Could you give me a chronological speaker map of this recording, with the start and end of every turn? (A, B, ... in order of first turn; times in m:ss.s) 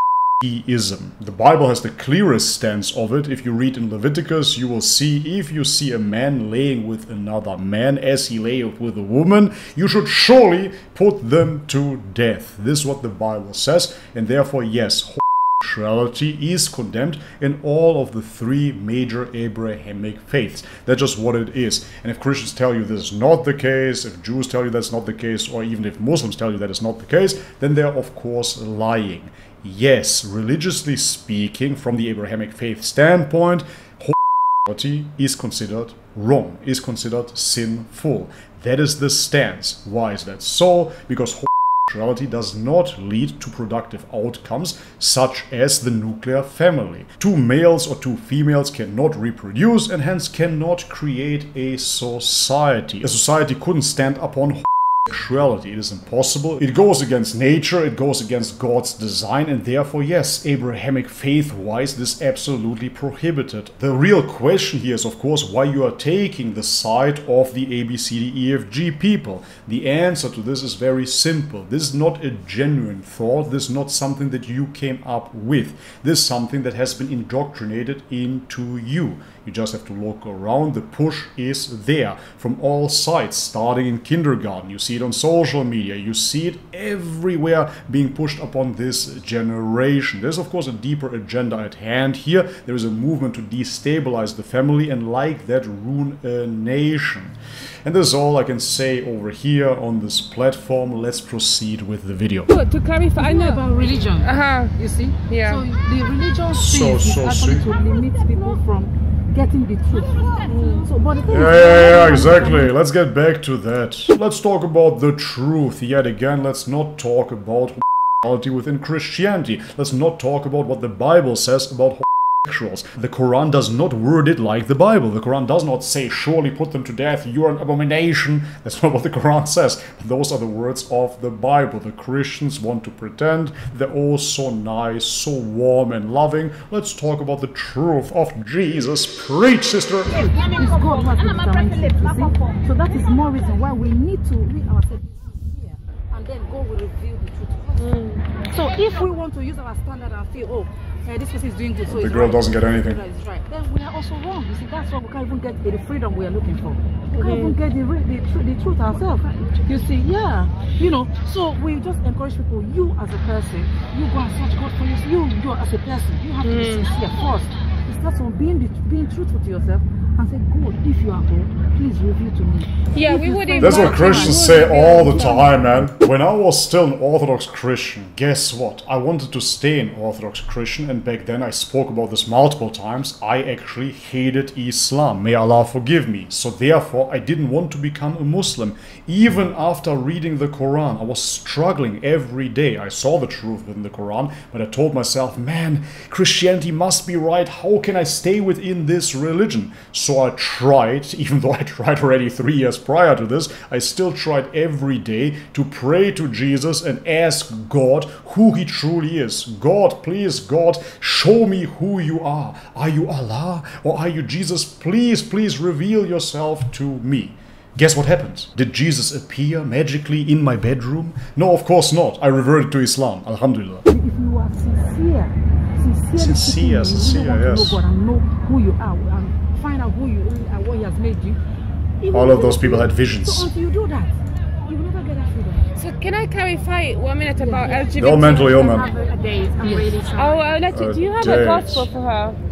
0:00.4-1:42.5 A
1:42.5-1:43.6 B
1:43.2-1:52.8 C
1:44.2-1:44.7 B
1:45.3-1:45.6 B
1:46.5-1:47.7 A
1:50.4-1:50.9 B
1:51.3-2:20.3 A
2:20.3-2:54.6 C
2:27.8-2:28.2 B
2:31.8-2:33.0 A
2:37.2-2:37.6 B
2:38.9-2:39.7 D
2:46.4-2:46.9 B
2:52.9-2:55.7 B
2:53.6-3:43.9 A
3:43.9-3:51.4 C
3:46.2-3:47.8 A
3:52.0-3:55.7 C
3:52.1-3:53.5 A
3:55.8-3:58.6 B
3:57.4-3:57.9 C
3:58.0-3:58.9 A
3:58.0-4:00.6 D
3:59.6-4:00.0 C
4:00.1-4:02.4 B
4:00.7-4:01.9 A